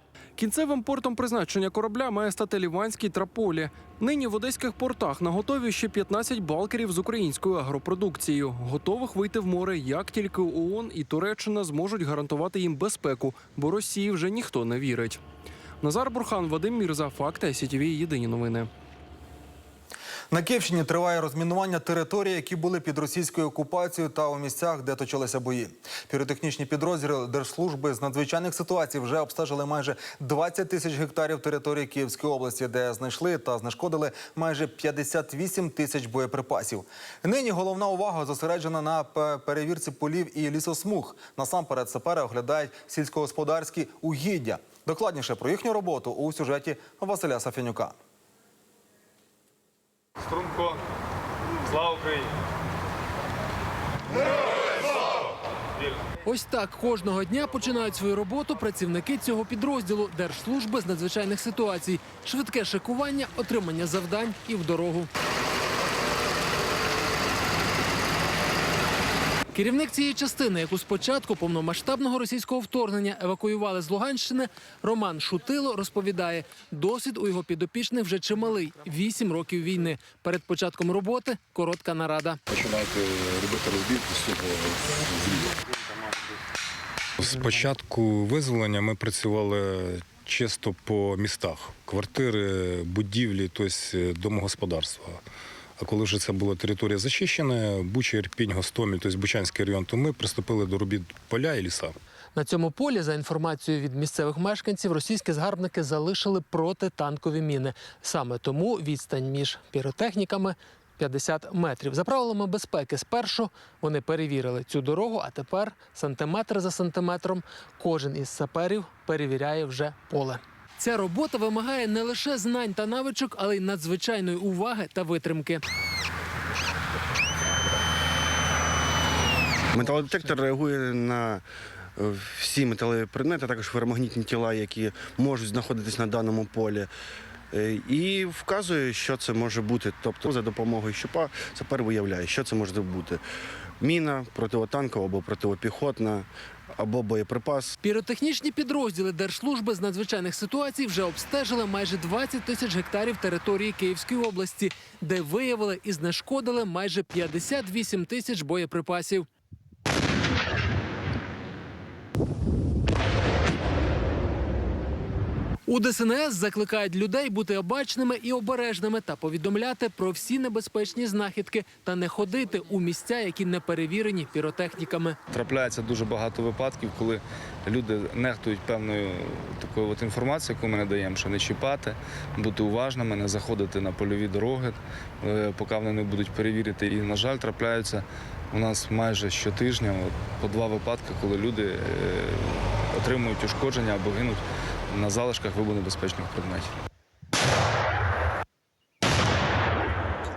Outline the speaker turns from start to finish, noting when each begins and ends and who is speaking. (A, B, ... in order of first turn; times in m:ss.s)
0:00.4-0:15.2 A
0:15.8-0:18.7 A
0:20.3-0:48.0 B
0:50.2-0:50.8 C
0:51.7-0:52.3 C
0:56.2-1:05.1 D
1:09.5-1:22.4 D
1:22.5-1:25.6 E
1:27.2-1:35.2 E
1:35.8-1:42.0 E
1:42.4-2:05.6 D
2:09.7-2:11.4 F
2:12.0-2:16.9 F
2:17.5-2:23.2 F
2:23.8-2:27.7 F
2:27.8-2:39.3 D
2:45.7-2:55.2 D
2:55.3-3:16.7 C